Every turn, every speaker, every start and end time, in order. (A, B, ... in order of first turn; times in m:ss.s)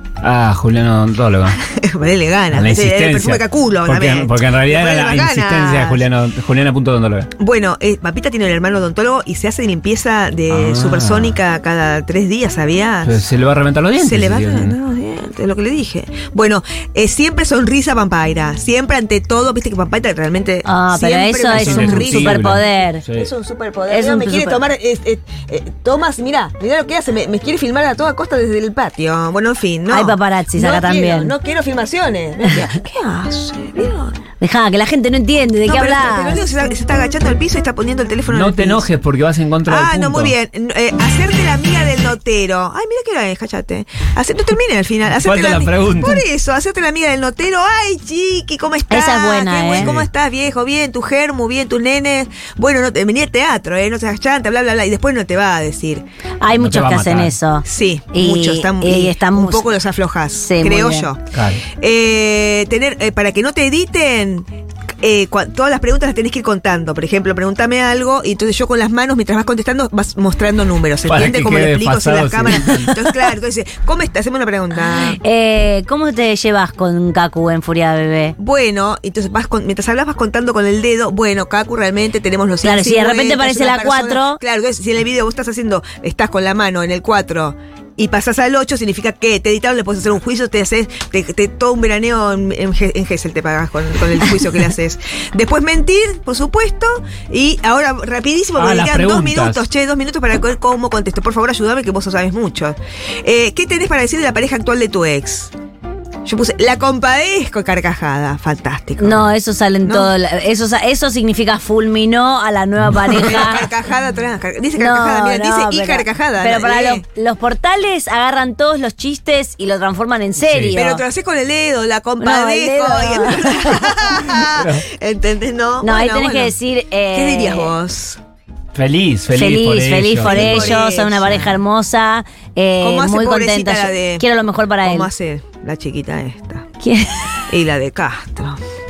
0:00.2-0:01.6 A
0:01.6-0:06.0 B
0:02.5-0:07.3 A
0:07.4-0:13.2 B
0:10.5-0:11.4 A
0:13.0-0:14.7 A
0:14.0-0:34.2 B
0:20.6-0:23.0 C
0:21.5-0:23.3 A
0:23.9-0:24.6 C
0:29.9-0:31.3 C
0:34.4-0:36.5 C
0:35.7-0:38.9 B
0:38.3-0:40.3 A
0:39.7-0:56.0 B
0:45.1-0:46.2 A
0:48.9-0:49.9 C
0:49.8-0:50.1 A
0:56.4-0:59.7 C
0:56.5-0:57.3 A
0:57.6-1:01.2 B
1:00.4-1:01.1 C
1:01.3-1:01.7 A
1:01.8-1:04.5 B
1:05.0-1:15.2 B
1:11.1-1:12.9 A
1:15.1-1:18.4 C
1:18.4-1:45.5 B
1:22.6-1:24.4 C
1:38.6-1:39.6 A
1:46.2-1:49.3 B
1:49.0-1:53.7 C
1:49.8-1:50.1 B
1:53.1-1:57.0 B
1:54.8-2:01.0 C
2:00.4-2:00.7 A
2:00.8-2:06.6 B
2:02.2-2:04.0 C
2:04.4-2:04.8 A
2:05.8-2:07.7 C
2:07.1-2:08.2 B
2:08.7-2:10.8 A
2:09.3-2:15.1 C
2:10.2-2:11.6 B
2:12.8-2:14.3 B
2:14.8-2:16.7 B
2:16.8-2:17.4 C
2:17.5-2:18.6 B